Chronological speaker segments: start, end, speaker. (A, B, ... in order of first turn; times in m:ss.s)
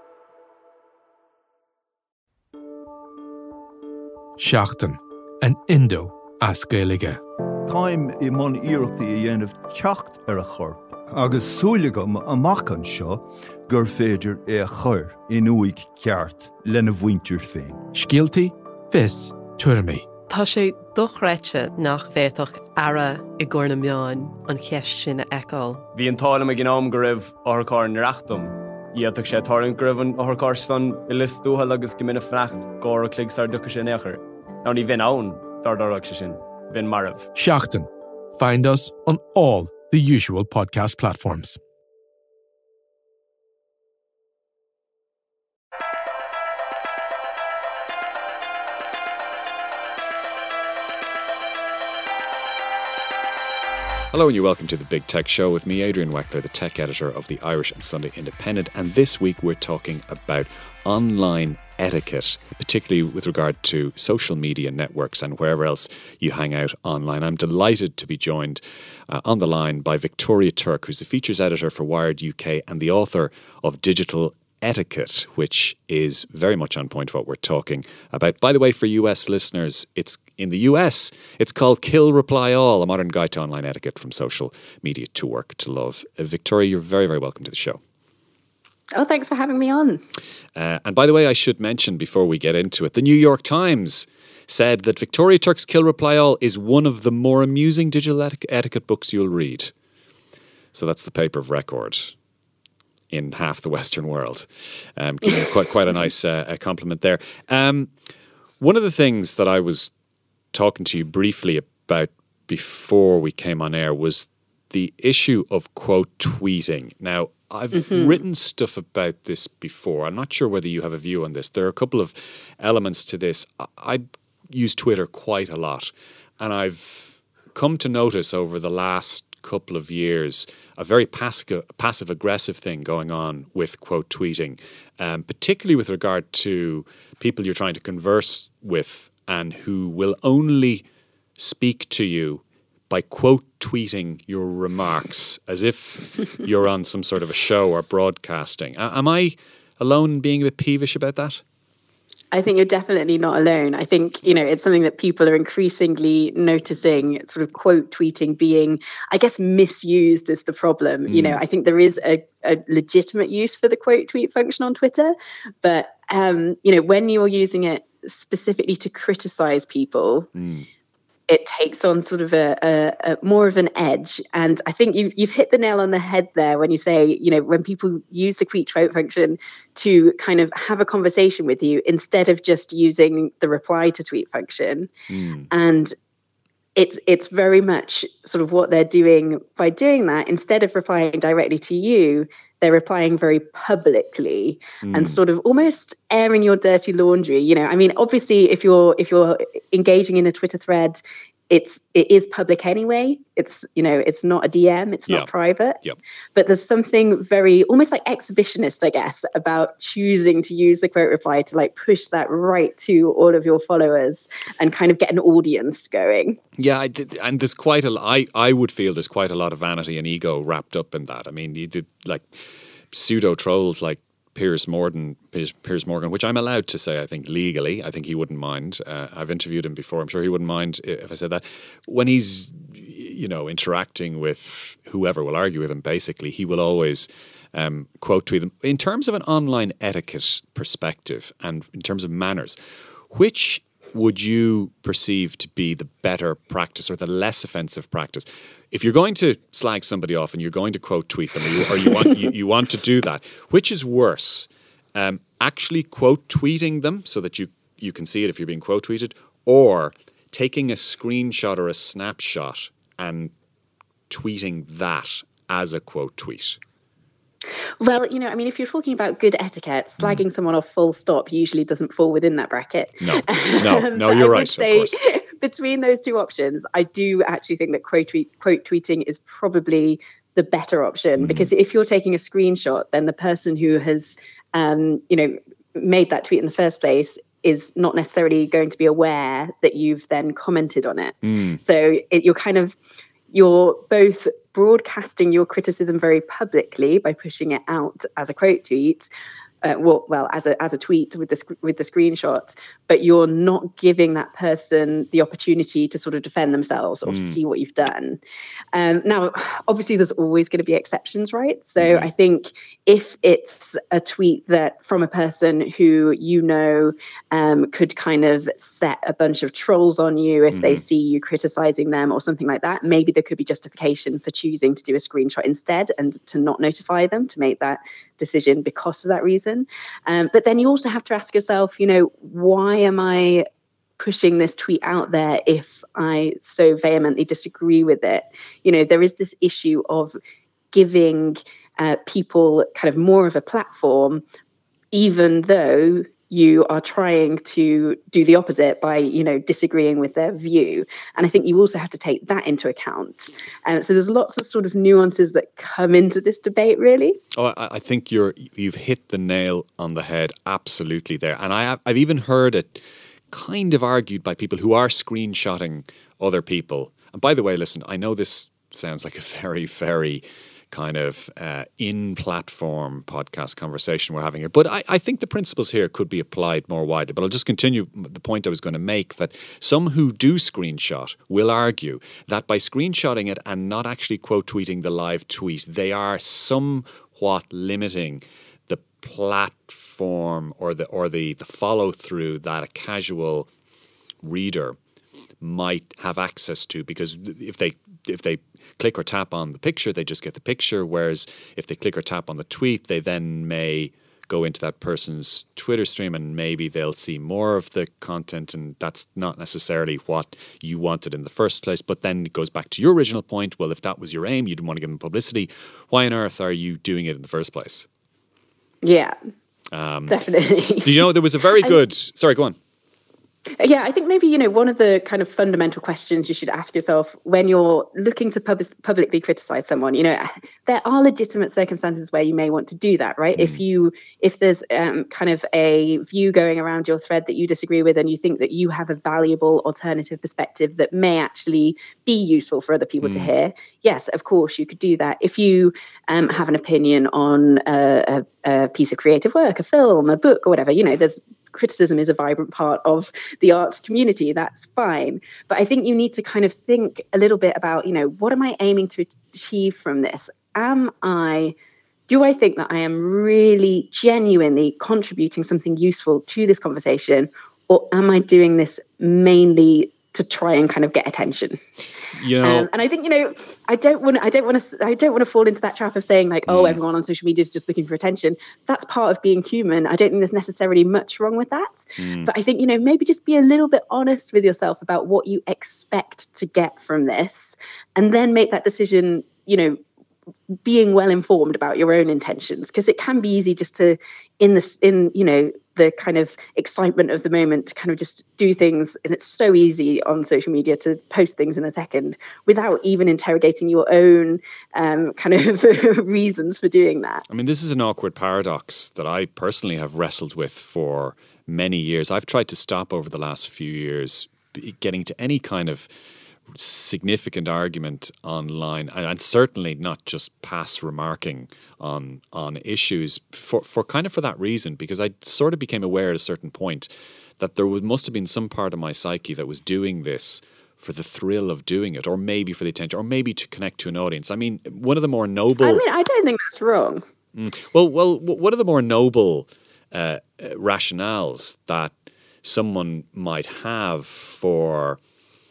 0:04.4-0:07.2 A
0:07.7-0:17.8 B
0:17.9-0:20.1 A
0:20.3-0:25.8 C
0:25.9-0:37.3 D
0:37.3-0:41.6 A
0:54.1-1:27.8 E
1:29.0-1:30.0 F
1:30.6-1:39.7 E
1:40.7-1:42.1 E
1:43.1-1:47.9 E
1:48.6-1:49.9 E
1:50.5-2:20.8 E
1:57.7-1:58.2 F
2:21.4-2:31.4 E
2:32.3-2:50.3 F
2:41.1-2:41.4 E
2:50.4-2:50.6 E
2:51.3-3:04.9 F
3:05.1-3:05.5 E
3:05.5-3:05.9 F
3:06.8-3:25.8 F
3:14.8-3:15.2 E
3:26.3-3:36.4 F
3:36.6-4:02.6 E
4:03.1-4:23.3 E
4:24.1-4:26.6 E
4:27.8-4:52.8 F
4:33.0-4:35.0 E
4:41.2-4:41.5 E
4:51.2-4:51.6 E
4:53.3-4:59.1 F
4:59.6-5:08.2 F
5:07.0-5:07.4 E
5:08.7-5:33.4 F
5:11.8-5:12.1 E
5:20.5-5:20.8 E
5:34.0-5:40.2 F
5:40.7-5:44.2 F
5:44.9-5:57.2 F
5:57.3-6:33.5 E
6:34.2-6:34.8 E
6:35.4-6:57.9 E
6:58.8-6:59.1 F
6:59.7-7:00.2 E
7:00.1-7:01.1 F
7:00.8-7:02.6 E
7:03.6-7:41.5 F
7:13.4-7:13.6 E
7:23.0-7:23.3 E
7:42.1-7:51.6 F
7:52.1-7:52.7 E
7:52.4-8:09.8 F
7:56.5-7:56.8 E
8:02.0-8:02.3 E
8:10.6-8:27.2 F
8:27.3-8:35.9 E
8:36.5-8:55.8 E
8:55.6-8:57.0 F
8:57.3-9:05.0 E